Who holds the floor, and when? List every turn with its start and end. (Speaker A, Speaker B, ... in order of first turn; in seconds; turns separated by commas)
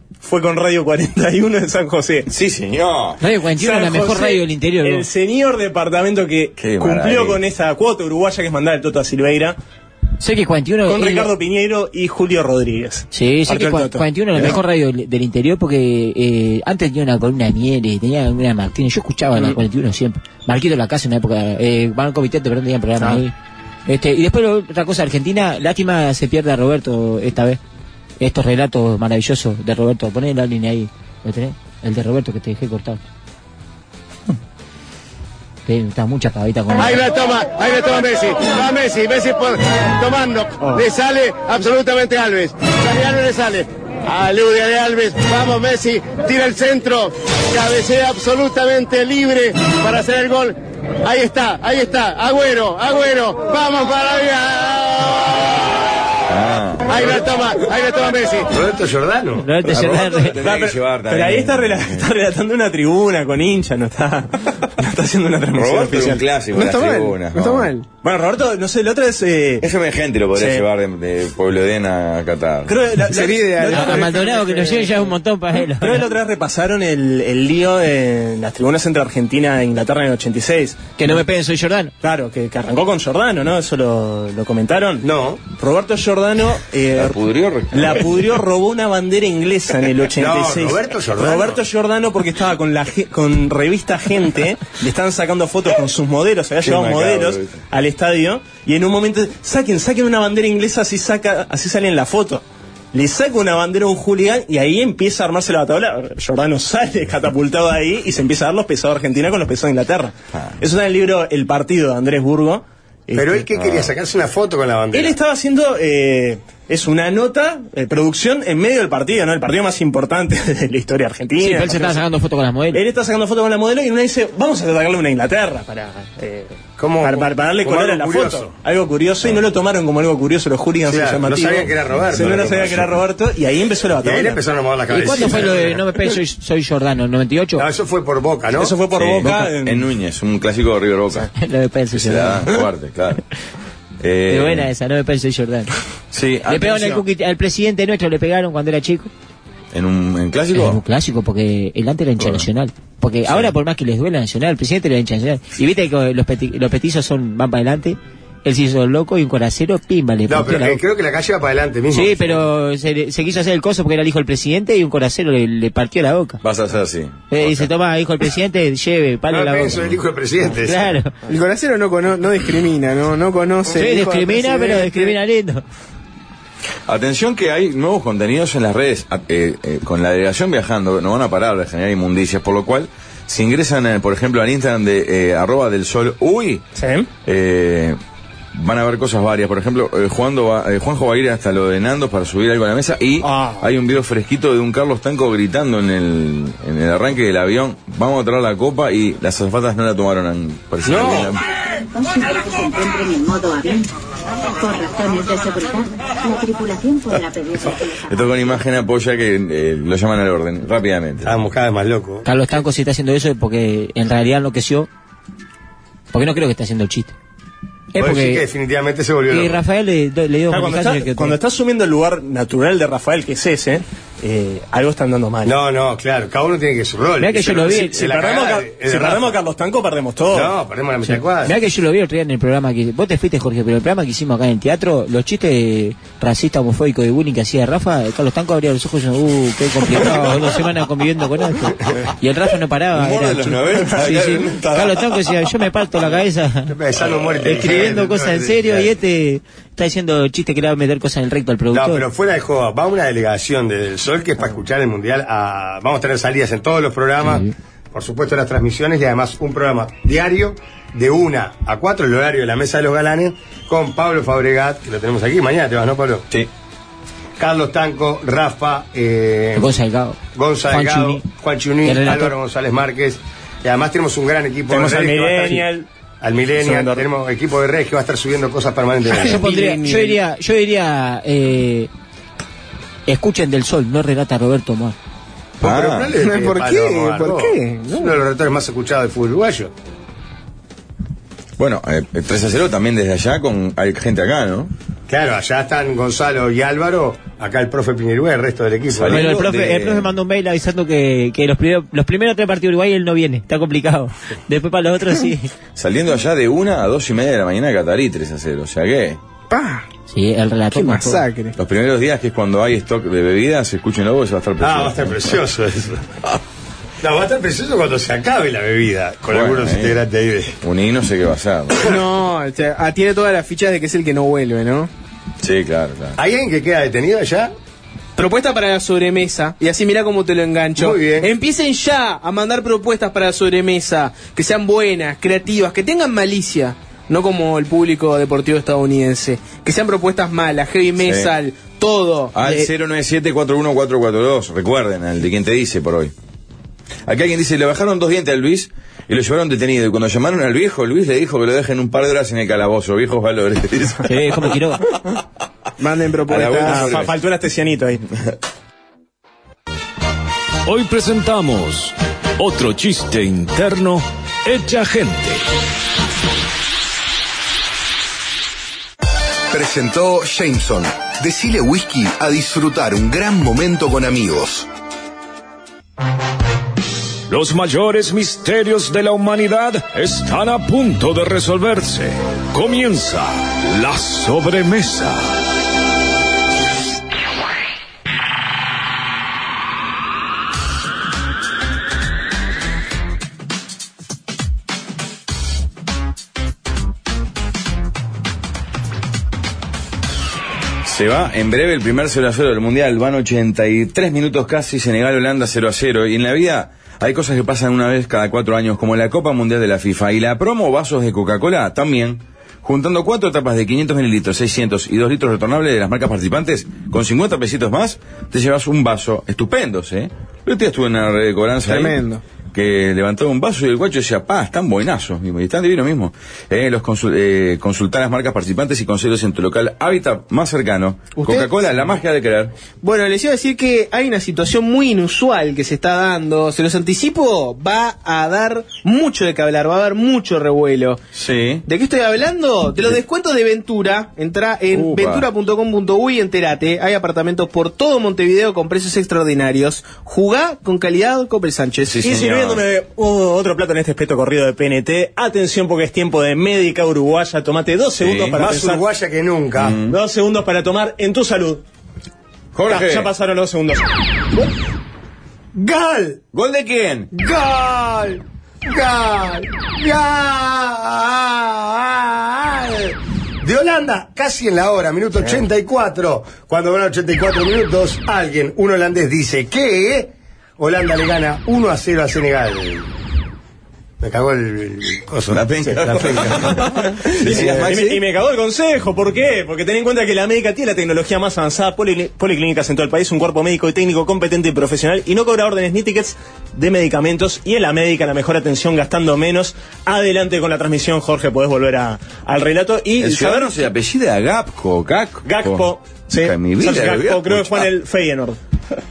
Speaker A: 0.2-2.3, Speaker B: 2.3-3.2, Speaker C: 3.2-5.1, Speaker A: 3.6-9.6, Speaker B: 6.6-7.4, Speaker C: 10.2-11.3, Speaker A: 10.8-14.6, Speaker C: 13.1-23.3, Speaker C: 23.9-27.6, Speaker C: 28.2-33.0, Speaker C: 35.7-37.1, Speaker D: 36.8-55.4, Speaker A: 40.6-40.8, Speaker B: 56.3-57.3, Speaker D: 56.9-58.5, Speaker E: 58.5-59.5, Speaker C: 59.4-60.4, Speaker B: 59.6-62.1, Speaker A: 60.4-66.2, Speaker B: 65.5-67.7, Speaker F: 66.5-67.9, Speaker A: 68.0-69.7, Speaker B: 69.6-72.8, Speaker A: 70.3-70.7, Speaker A: 72.7-74.2, Speaker F: 73.1-75.1, Speaker C: 73.1-76.1, Speaker A: 75.8-81.2, Speaker C: 81.0-81.9, Speaker A: 82.0-87.2, Speaker E: 85.0-85.4, Speaker B: 87.0-88.4, Speaker A: 87.7-113.9, Speaker E: 90.2-91.6, Speaker B: 96.6-97.6, Speaker E: 113.1-115.2, Speaker A: 114.9-122.0, Speaker C: 121.4-122.8, Speaker A: 122.7-134.4, Speaker E: 126.8-128.5, Speaker E: 130.9-132.9, Speaker B: 132.1-132.9, Speaker E: 134.0-135.8, Speaker C: 134.9-137.7, Speaker A: 135.0-135.7, Speaker E: 137.6-138.7, Speaker A: 138.6-139.9, Speaker B: 139.0-141.3, Speaker C: 141.3-142.6, Speaker B: 141.9-143.2, Speaker B: 144.0-144.7, Speaker C: 144.3-145.7, Speaker B: 146.1-147.0, Speaker C: 146.5-149.1, Speaker B: 149.7-150.8, Speaker C: 150.5-160.8, Speaker B: 152.2-152.4, Speaker B: 153.2-153.5, Speaker E: 160.3-162.4, Speaker C: 161.9-166.4, Speaker B: 166.4-167.7, Speaker C: 167.3-171.1, Speaker E: 169.3-170.9, Speaker F: 171.3-175.2, Speaker C: 173.8-175.6, Speaker B: 176.9-186.6, Speaker A: 186.8-187.1, Speaker B: 187.3-188.0, Speaker B: 188.5-201.4, Speaker A: 193.2-193.7, Speaker E: 200.8-201.4, Speaker G: 201.8-203.9, Speaker G: 204.6-208.2, Speaker B: 208.1-211.3, Speaker E: 211.2-212.2, Speaker C: 212.2-214.9, Speaker C: 216.1-217.1, Speaker C: 217.9-218.4, Speaker E: 218.0-219.6, Speaker C: 219.3-221.4, Speaker A: 220.5-225.6, Speaker E: 225.4-229.3, Speaker C: 227.2-228.2, Speaker A: 227.7-230.5, Speaker E: 230.3-231.6, Speaker C: 231.1-246.8, Speaker B: 242.9-245.2, Speaker E: 246.7-248.9, Speaker B: 247.2-248.0, Speaker C: 247.4-252.1, Speaker E: 251.7-266.3, Speaker C: 257.2-257.5, Speaker E: 267.4-269.8, Speaker C: 269.6-271.3, Speaker E: 270.3-275.7, Speaker C: 271.8-272.4, Speaker A: 274.7-275.9, Speaker E: 276.2-279.4, Speaker A: 276.6-277.1, Speaker F: 279.1-280.2, Speaker C: 279.1-281.9, Speaker C: 283.1-285.0, Speaker E: 285.6-289.7, Speaker B: 285.6-286.1, Speaker F: 286.2-288.2, Speaker B: 291.6-294.7, Speaker E: 295.1-299.4, Speaker B: 299.0-300.1, Speaker C: 299.1-305.5, Speaker B: 305.8-309.2, Speaker F: 309.5-309.9, Speaker C: 310.1-311.3, Speaker F: 310.7-311.6, Speaker B: 311.6-315.4, Speaker E: 314.6-316.1, Speaker E: 317.0-320.6, Speaker B: 319.3-320.0, Speaker B: 320.6-321.8, Speaker F: 321.8-324.9, Speaker B: 325.4-326.2, Speaker E: 326.2-327.5, Speaker F: 328.2-342.4, Speaker E: 330.8-331.3, Speaker B: 341.0-341.3, Speaker B: 342.3-346.1, Speaker B: 347.1-354.1, Speaker C: 354.0-354.9, Speaker F: 355.8-357.1, Speaker B: 356.3-357.1, Speaker A: 356.6-358.1, Speaker H: 360.6-365.4, Speaker I: 369.5-374.7, Speaker H: 377.3-385.3, Speaker B: 400.9-422.0, Speaker F: 421.6-422.2, Speaker B: 422.5-432.5, Speaker F: 431.1-431.9, Speaker F: 432.8-441.0, Speaker B: 441.1-441.6, Speaker F: 441.7-452.1, Speaker B: 444.7-445.3, Speaker B: 451.9-452.6, Speaker A: 452.0-458.8, Speaker B: 458.0-458.4, Speaker E: 458.4-459.8, Speaker B: 459.6-460.0, Speaker A: 459.9-461.6, Speaker B: 462.5-463.1, Speaker A: 462.7-464.5, Speaker E: 465.5-466.2, Speaker B: 466.3-467.1, Speaker E: 467.1-482.9, Speaker E: 484.0-486.4, Speaker B: 485.3-488.0, Speaker A: 486.3-503.6, Speaker B: 503.0-507.7, Speaker A: 505.2-508.4